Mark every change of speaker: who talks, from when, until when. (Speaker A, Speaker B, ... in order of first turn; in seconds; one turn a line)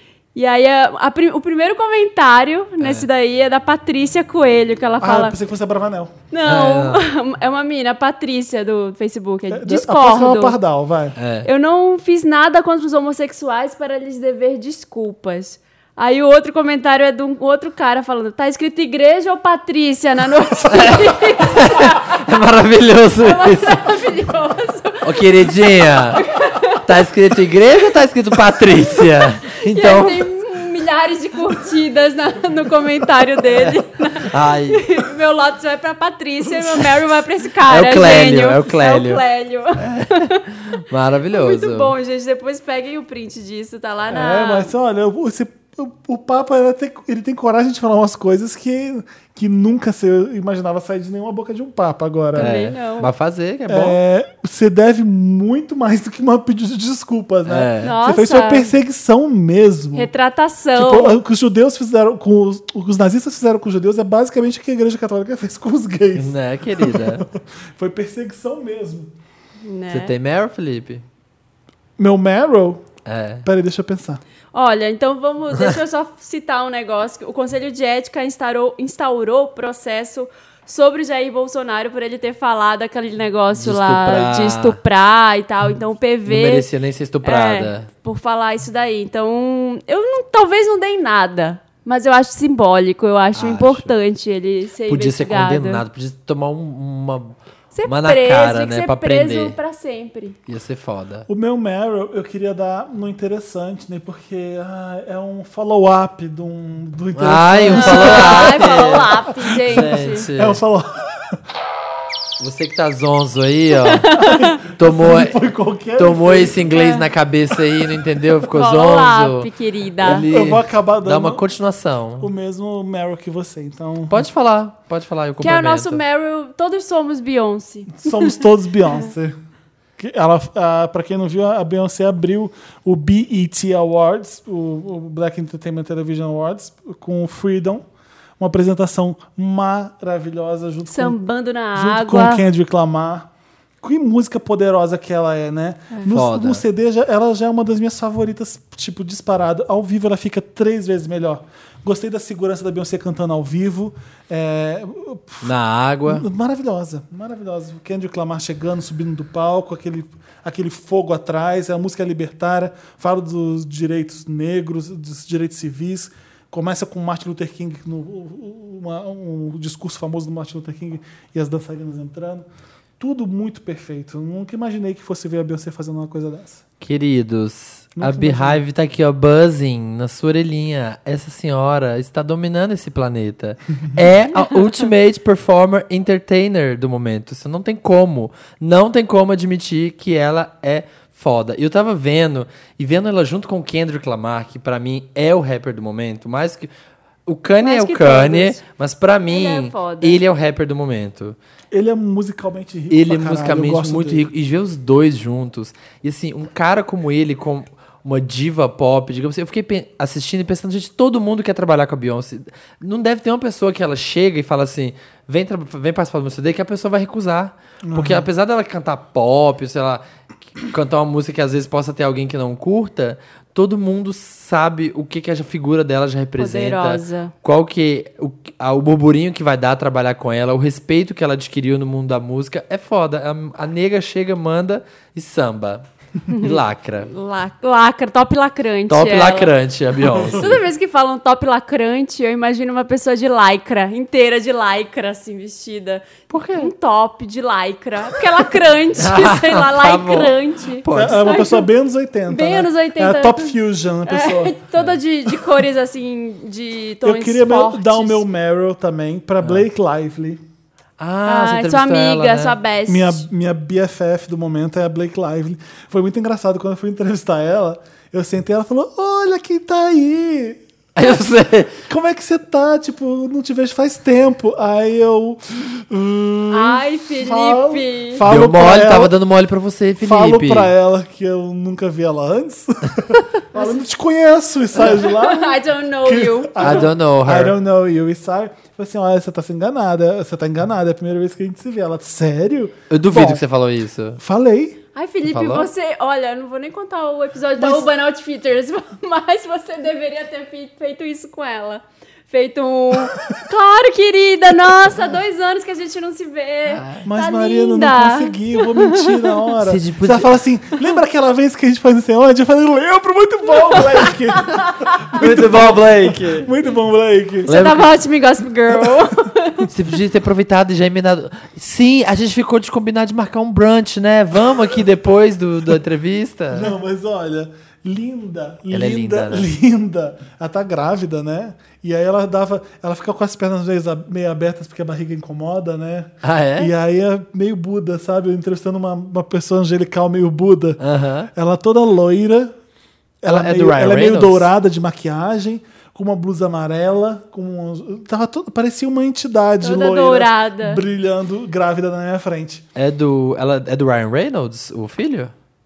Speaker A: 0.3-5.3
Speaker B: 2.8-3.0
Speaker C: 5.0-6.1
Speaker A: 6.3-10.6
Speaker B: 6.4-7.0
Speaker C: 9.5-11.2
Speaker B: 11.2-11.5
Speaker A: 11.4-22.2
Speaker B: 20.7-23.9
Speaker A: 23.2-26.8
Speaker B: 25.0-26.2
Speaker B: 26.8-30.2
Speaker A: 29.4-40.4
Speaker B: 33.5-35.0
Speaker B: 37.6-39.2
Speaker B: 39.7-41.9
Speaker A: 41.3-44.7
Speaker C: 44.1-52.6
Speaker A: 52.4-53.1
Speaker B: 52.4-54.0
Speaker C: 53.7-60.1
Speaker B: 57.5-57.9
Speaker A: 57.8-58.7
Speaker A: 59.9-61.2
Speaker C: 60.7-69.1
Speaker B: 66.1-67.2
Speaker A: 69.6-70.1
Speaker B: 69.9-71.0
Speaker C: 72.0-72.9
Speaker B: 73.0-73.5
Speaker C: 73.4-74.2
Speaker A: 74.5-86.7
Speaker B: 83.5-84.8
Speaker B: 86.2-87.9
Speaker A: 87.2-95.8
Speaker B: 93.3-93.9
Speaker B: 94.9-99.5
Speaker A: 97.7-100.4
Speaker B: 100.5-101.3
Speaker C: 101.3-111.4
Speaker B: 107.2-110.6
Speaker A: 107.7-110.2
Speaker B: 112.4-115.4
Speaker A: 113.8-114.6
Speaker C: 114.2-116.7
Speaker B: 116.0-119.5
Speaker A: 116.7-117.0
Speaker A: 118.5-120.3
Speaker B: 120.0-122.3
Speaker C: 120.0-121.4
Speaker C: 122.2-124.2
Speaker B: 124.1-126.0
Speaker A: 125.4-128.4
Speaker C: 127.9-129.3
Speaker C: 130.0-137.8
Speaker C: 138.4-141.2
Speaker A: 140.9-142.4
Speaker C: 141.8-143.3
Speaker C: 143.8-155.5
Speaker B: 146.1-146.6
Speaker B: 155.4-156.2
Speaker C: 156.1-172.4
Speaker C: 173.0-176.6
Speaker B: 176.8-196.7
Speaker C: 178.0-178.6
Speaker B: 197.3-201.4
Speaker A: 197.6-198.6
Speaker A: 199.3-200.2
Speaker C: 201.7-204.3
Speaker B: 202.9-220.0
Speaker C: 217.8-218.3
Speaker B: 220.6-237.1
Speaker A: 226.4-227.3
Speaker A: 236.3-239.5
Speaker B: 238.9-240.6
Speaker A: 240.2-251.7
Speaker B: 246.3-246.7
Speaker B: 248.9-251.3
Speaker C: 250.9-254.6
Speaker A: 252.3-258.2
Speaker C: 257.0-260.4
Speaker B: 261.0-262.6
Speaker A: 261.2-263.2
Speaker C: 262.9-270.6
Speaker B: 270.9-271.8
Speaker C: 271.9-279.1
Speaker A: 276.5-278.2
Speaker B: 278.2-280.7
Speaker C: 280.0-293.4
Speaker A: 283.5-283.8
Speaker A: 284.8-286.9
Speaker B: 286.6-287.6
Speaker B: 292.9-294.2
Speaker C: 294.2-294.8
Speaker A: 294.9-309.4
Speaker B: 295.3-295.7
Speaker C: 297.6-297.9
Speaker B: 306.7-307.0
Speaker C: 307.0-317.5
Speaker B: 309.6-310.3
Speaker A: 314.3-315.2
Speaker B: 315.2-316.5
Speaker A: 317.4-319.7
Speaker B: 317.4-317.9
Speaker B: 319.7-326.7
Speaker C: 326.5-340.8
Speaker B: 328.7-329.5
Speaker B: 336.2-336.7
Speaker B: 340.8-341.3
Speaker C: 341.3-342.5
Speaker C: 343.2-352.6
Speaker B: 343.3-344.5
Speaker A: 349.6-350.8
Speaker B: 352.7-355.3